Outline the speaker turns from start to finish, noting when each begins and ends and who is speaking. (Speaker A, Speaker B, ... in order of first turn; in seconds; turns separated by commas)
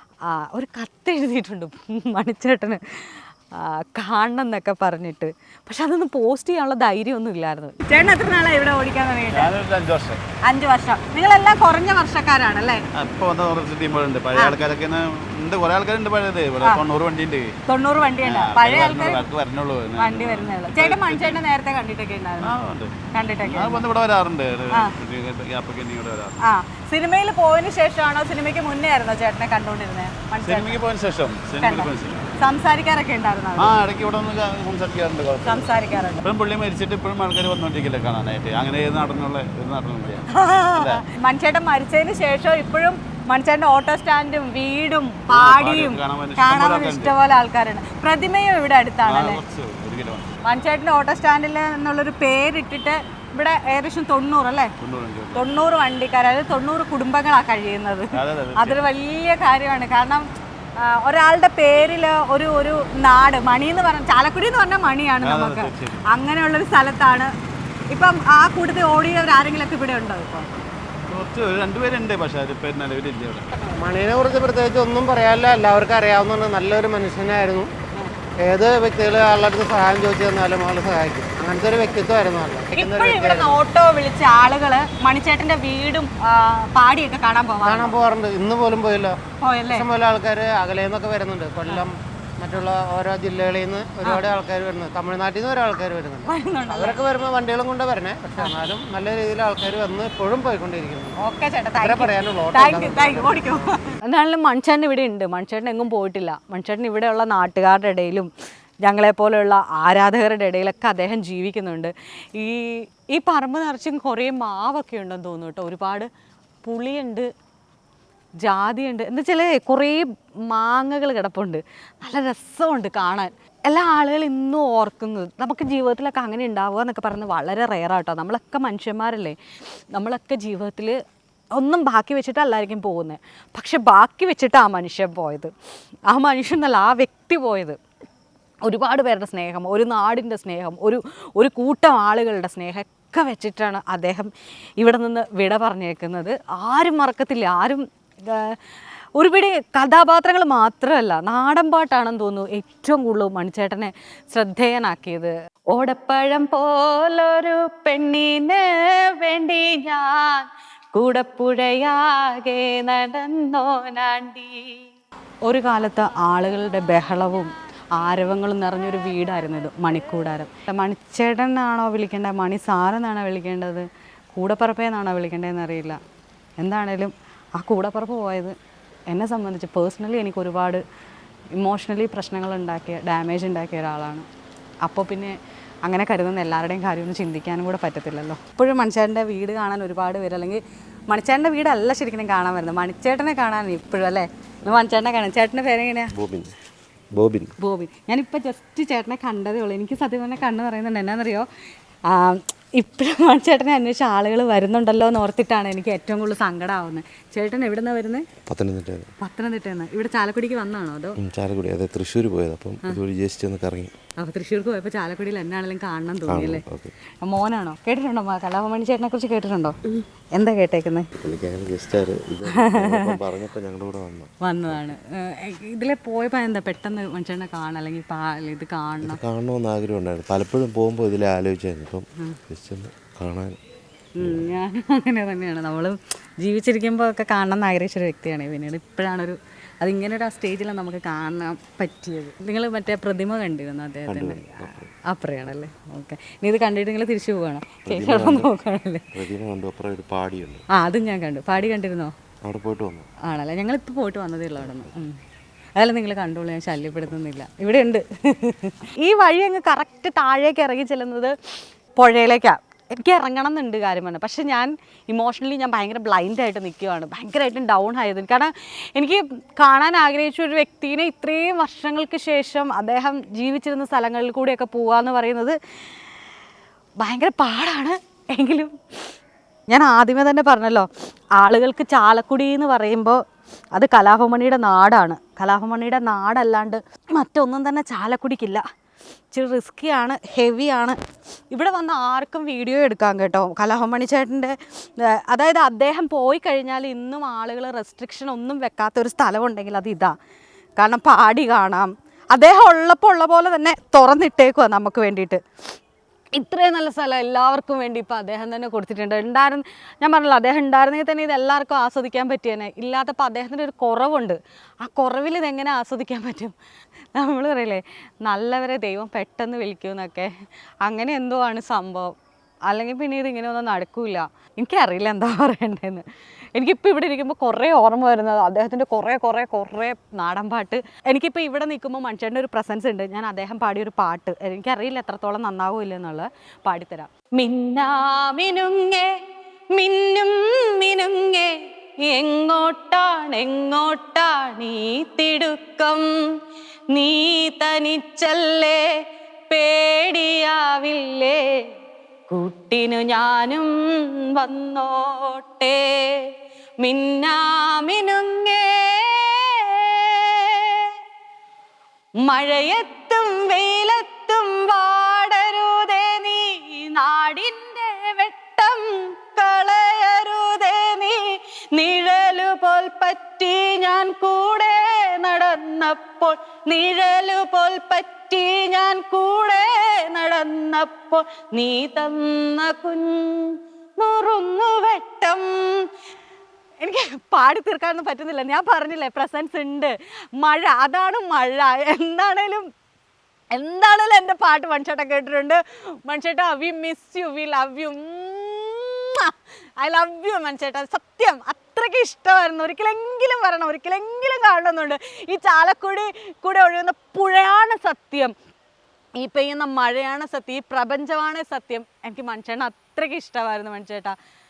Speaker A: 0.2-9.5, Speaker B: 9.3-10.2, Speaker A: 10.4-12.8, Speaker B: 12.9-17.6, Speaker A: 17.7-19.2, Speaker B: 18.2-21.4, Speaker A: 20.0-22.5, Speaker B: 22.4-22.9, Speaker A: 23.1-23.9, Speaker B: 23.4-26.4, Speaker A: 26.4-30.8, Speaker B: 30.4-32.3, Speaker A: 31.6-33.7, Speaker B: 33.6-41.0, Speaker A: 35.4-36.2, Speaker A: 40.3-49.4, Speaker B: 45.3-47.1, Speaker B: 49.0-50.4, Speaker A: 50.4-54.7, Speaker B: 54.8-55.5, Speaker A: 55.3-67.3, Speaker B: 58.1-58.8, Speaker B: 65.2-66.0, Speaker A: 67.9-70.5, Speaker B: 71.1-73.5, Speaker C: 73.7-77.7, Speaker C: 78.4-83.6, Speaker A: 82.7-88.0, Speaker C: 87.6-89.2, Speaker A: 89.4-89.9, Speaker C: 89.7-101.2, Speaker A: 94.0-94.3, Speaker A: 96.2-97.0, Speaker A: 101.2-108.3, Speaker C: 101.8-103.6, Speaker A: 108.8-116.1, Speaker A: 116.6-117.3, Speaker A: 118.4-129.4, Speaker A: 129.9-131.0, Speaker A: 131.5-135.5, Speaker A: 136.1-137.8, Speaker A: 138.6-148.6, Speaker A: 149.2-164.8, Speaker A: 165.4-176.0, Speaker A: 176.6-178.5, Speaker A: 179.1-180.8, Speaker A: 181.5-184.2, Speaker A: 184.8-196.1, Speaker D: 196.1-196.5, Speaker D: 197.1-197.5, Speaker A: 197.6-201.5, Speaker A: 202.1-208.3, Speaker D: 208.4-209.1, Speaker A: 209.2-211.2, Speaker D: 211.2-213.9, Speaker A: 214.2-216.6, Speaker D: 216.3-216.9, Speaker A: 217.2-219.8, Speaker A: 220.3-221.1, Speaker D: 221.1-224.9, Speaker A: 222.5-223.2, Speaker A: 224.4-229.2, Speaker D: 229.0-233.6, Speaker A: 234.2-249.1, Speaker D: 234.2-234.5, Speaker D: 244.1-244.9, Speaker D: 247.8-248.5, Speaker D: 249.1-250.6, Speaker A: 250.7-252.1, Speaker D: 252.4-253.1, Speaker A: 253.2-255.2, Speaker A: 255.8-275.6, Speaker A: 277.0-278.7, Speaker A: 279.7-283.2, Speaker A: 283.7-288.6, Speaker A: 289.3-291.0, Speaker A: 291.5-300.1, Speaker A: 300.8-305.4, Speaker A: 306.3-316.5, Speaker A: 317.1-320.3, Speaker A: 320.8-322.1, Speaker A: 322.7-339.2, Speaker A: 339.7-346.1, Speaker A: 346.9-351.7, Speaker A: 352.3-360.9, Speaker A: 362.2-385.9, Speaker A: 386.8-392.7, Speaker A: 393.5-408.3, Speaker A: 409.1-414.1